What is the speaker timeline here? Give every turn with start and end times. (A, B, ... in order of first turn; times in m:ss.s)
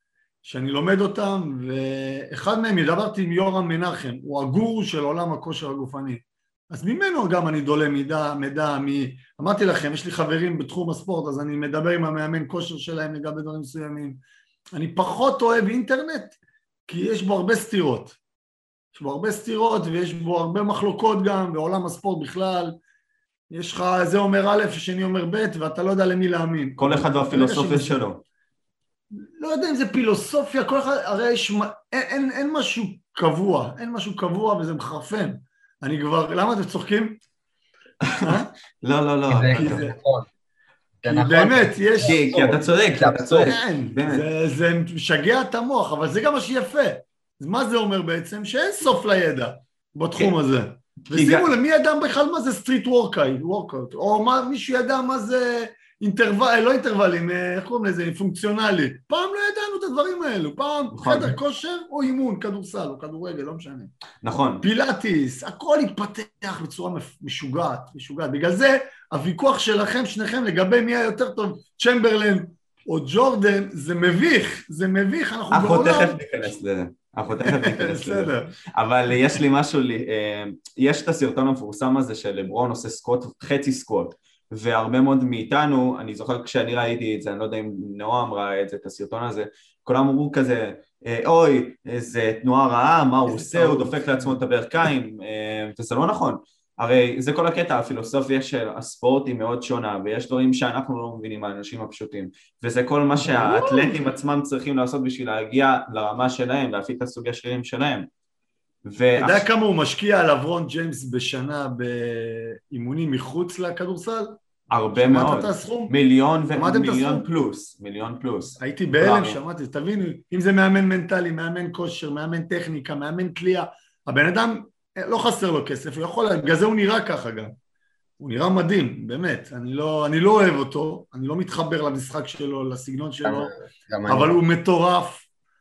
0:00.4-0:14.2 A
0:14.8-0:16.4 A
0:16.9-0:18.2 A
0:18.9-0:22.8 A
0:23.5-0:28.0 A
0:26.8-0:28.2 B
0:29.1-0:37.2 A
0:38.0-0:39.9 B
0:38.2-0:38.5 A
0:39.3-0:40.3 C
0:39.5-0:40.0 A
0:41.0-0:42.6 A
0:41.0-0:43.6 C
0:42.0-0:44.3 B
0:43.4-1:03.9 A
0:51.1-0:51.5 B
1:00.9-1:01.4 B
1:04.2-1:04.6 B
1:04.6-1:16.3 A
1:15.5-1:48.1 B
1:17.4-1:18.5 A
1:33.3-1:34.4 A
1:43.2-1:44.0 A
1:48.8-1:49.5 B
1:49.2-1:54.4 A
1:54.7-1:59.4 B
1:55.0-1:55.9 A
1:56.5-1:57.2 A
1:58.6-2:07.5 A
2:08.2-2:13.5 A
2:13.2-2:14.4 C
2:14.1-2:15.3 A